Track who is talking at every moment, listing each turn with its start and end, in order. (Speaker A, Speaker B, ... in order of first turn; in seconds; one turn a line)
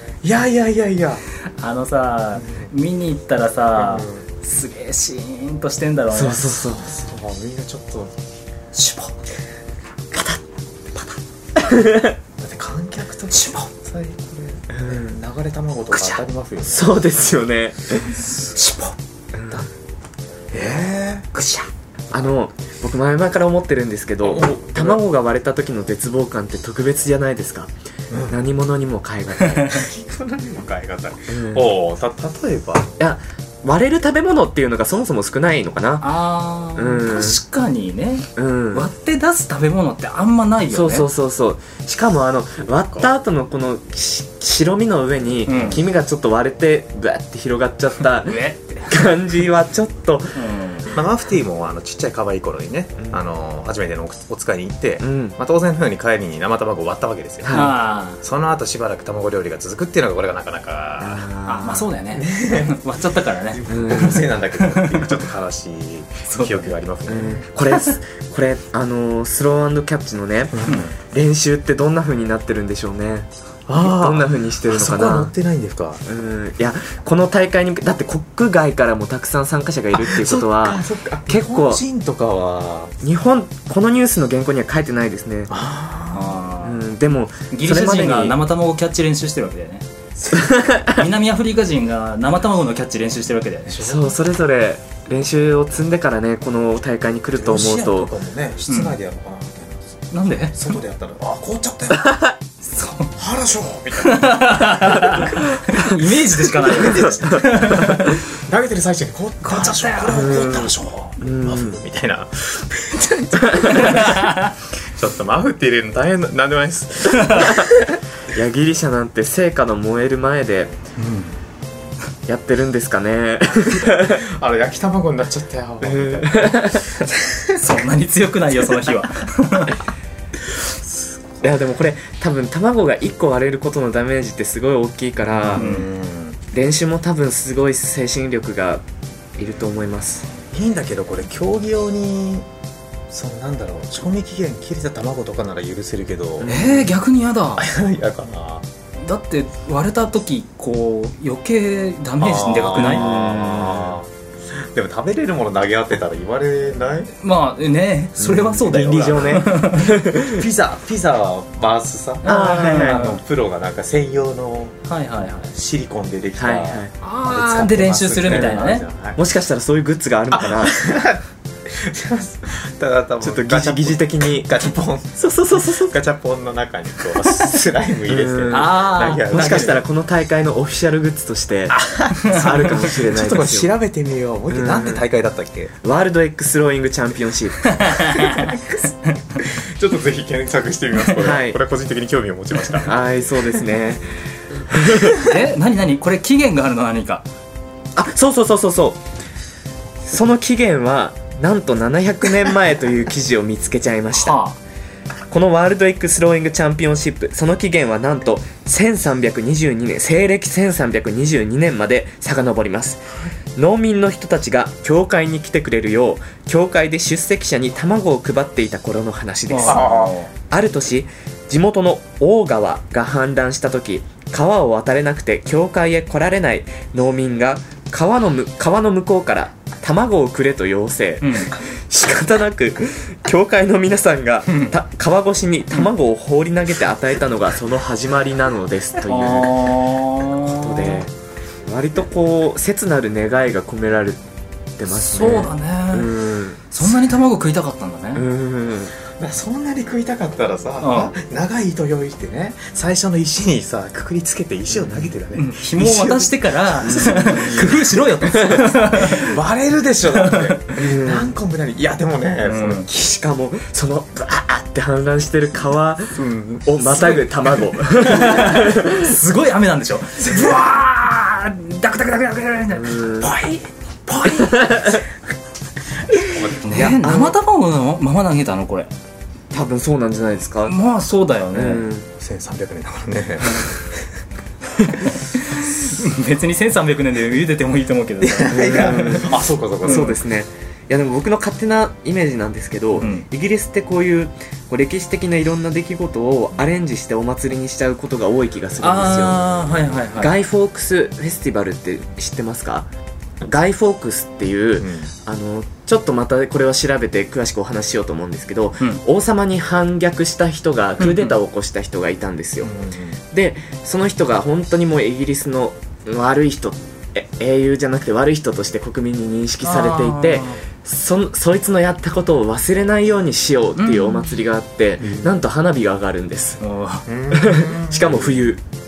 Speaker A: 0.2-1.2
Speaker B: 1.6-6.5
Speaker A: 2.4-2.7
Speaker A: 3.7-4.2
Speaker C: 6.1-6.8
Speaker A: 6.6-8.1
Speaker B: 8.7-9.1
Speaker C: 10.1-10.4
Speaker C: 10.9-12.2
Speaker A: 12.4-16.9
Speaker B: 13.3-13.7
Speaker C: 14.8-15.2
Speaker B: 15.9-16.2
Speaker C: 16.6-18.1
Speaker B: 18.2-18.9
Speaker C: 19.3-19.6
Speaker A: 20.5-21.3
Speaker B: 21.3-21.7
Speaker C: 22.1-27.7
Speaker A: 24.2-25.0
Speaker A: 28.1-28.4
Speaker C: 28.3-29.8
Speaker A: 29.7-32.9
Speaker C: 31.3-31.6
Speaker C: 33.0-36.1
Speaker B: 36.0-41.1
Speaker C: 36.8-37.4
Speaker C: 38.4-38.9
Speaker C: 40.7-50.4
Speaker B: 45.5-45.8
Speaker B: 48.2-48.9
Speaker B: 50.3-50.9
Speaker A: 50.9-61.3
Speaker C: 55.0-55.4
Speaker C: 57.4-57.7
Speaker B: 57.5-58.2
Speaker C: 61.0-61.9
Speaker B: 61.5-65.1
Speaker A: 62.1-62.8
Speaker A: 63.5-67.5
Speaker C: 63.7-64.3
Speaker B: 66.3-66.7
Speaker C: 67.1-75.3
Speaker A: 70.5-70.9
Speaker A: 73.7-76.0
Speaker C: 76.0-81.8
Speaker A: 79.9-82.9
Speaker C: 83.0-85.5
Speaker A: 85.5-86.4
Speaker B: 86.1-86.8
Speaker C: 86.6-88.4
Speaker B: 87.5-89.8
Speaker A: 90.2-90.5
Speaker C: 90.3-91.0
Speaker B: 90.8-93.7
Speaker A: 93.7-94.2
Speaker C: 93.8-98.1
Speaker A: 97.3-102.2
Speaker B: 98.7-99.0
Speaker B: 100.1-100.5
Speaker B: 102.6-103.1
Speaker A: 103.2-105.4
Speaker B: 104.0-108.2
Speaker A: 106.6-114.4
Speaker C: 107.0-107.4
Speaker B: 109.4-110.7
Speaker C: 110.1-111.8
Speaker C: 113.4-114.0
Speaker B: 113.7-114.5
Speaker A: 114.9-117.8
Speaker B: 117.1-117.5
Speaker C: 117.3-117.7
Speaker C: 118.3-120.8
Speaker A: 121.0-121.3
Speaker C: 122.3-124.2
Speaker A: 123.7-127.6
Speaker C: 125.8-127.0
Speaker B: 127.5-129.8
Speaker C: 131.4-135.7
Speaker A: 135.3-136.4
Speaker B: 135.5-135.9
Speaker C: 136.5-138.8
Speaker C: 139.4-140.3
Speaker A: 140.5-142.4
Speaker A: 143.1-146.5
Speaker C: 146.4-146.8
Speaker B: 146.4-147.6
Speaker A: 147.6-148.7
Speaker B: 149.0-153.1
Speaker A: 152.2-157.1
Speaker C: 152.8-153.9
Speaker B: 157.2-160.0
Speaker C: 158.2-160.4
Speaker A: 158.6-164.8
Speaker B: 162.2-163.2
Speaker C: 162.2-163.1
Speaker B: 164.9-165.5
Speaker A: 165.5-169.2
Speaker C: 166.4-166.9
Speaker B: 167.0-168.8
Speaker C: 169.2-170.8
Speaker A: 170.3-179.8
Speaker C: 173.2-174.6
Speaker C: 175.2-175.9
Speaker C: 178.1-183.7
Speaker B: 178.5-179.8
Speaker A: 181.7-185.7
Speaker B: 182.2-182.5
Speaker C: 184.5-185.0
Speaker C: 185.8-187.9
Speaker B: 187.6-189.4
Speaker A: 188.3-188.8
Speaker A: 189.4-193.0
Speaker C: 191.2-191.6
Speaker C: 192.8-195.2
Speaker B: 195.2-197.2
Speaker C: 197.9-199.0
Speaker C: 200.0-204.4
Speaker B: 204.1-204.6
Speaker C: 205.3-219.9
Speaker B: 219.5-220.3
Speaker A: 219.7-220.1
Speaker C: 220.5-239.8
Speaker B: 231.2-231.5
Speaker B: 239.1-241.0
Speaker C: 240.3-241.1
Speaker C: 241.7-244.2
Speaker C: 244.8-246.7
Speaker B: 244.9-246.2
Speaker B: 246.7-248.3
Speaker C: 248.1-248.9
Speaker A: 249.2-258.0
Speaker B: 250.8-251.1
Speaker C: 254.7-255.1
Speaker B: 255.3-259.3
Speaker C: 256.8-257.7
Speaker C: 258.4-258.6
Speaker A: 258.9-262.9
Speaker B: 260.1-260.7
Speaker C: 260.8-261.3
Speaker B: 262.4-262.9
Speaker C: 262.9-269.1
Speaker A: 266.1-267.6
Speaker B: 267.9-274.5
Speaker A: 270.2-270.6
Speaker C: 272.7-273.4
Speaker C: 274.4-275.0
Speaker A: 276.1-277.0
Speaker B: 276.6-278.9
Speaker C: 276.7-277.4
Speaker C: 279.5-280.8
Speaker B: 280.6-281.9
Speaker C: 281.5-282.1
Speaker A: 282.2-283.9
Speaker B: 285.0-289.3
Speaker A: 288.2-290.2
Speaker C: 288.5-299.5
Speaker B: 289.9-290.1
Speaker B: 293.0-293.2
Speaker B: 298.8-300.4
Speaker C: 300.1-302.9
Speaker C: 303.4-312.7
Speaker A: 304.8-305.1
Speaker B: 311.0-311.4
Speaker A: 312.6-313.2
Speaker C: 313.3-326.6
Speaker B: 319.6-320.6
Speaker B: 323.8-324.3
Speaker A: 325.0-325.3
Speaker B: 326.6-327.1
Speaker A: 327.1-328.5
Speaker C: 327.3-328.6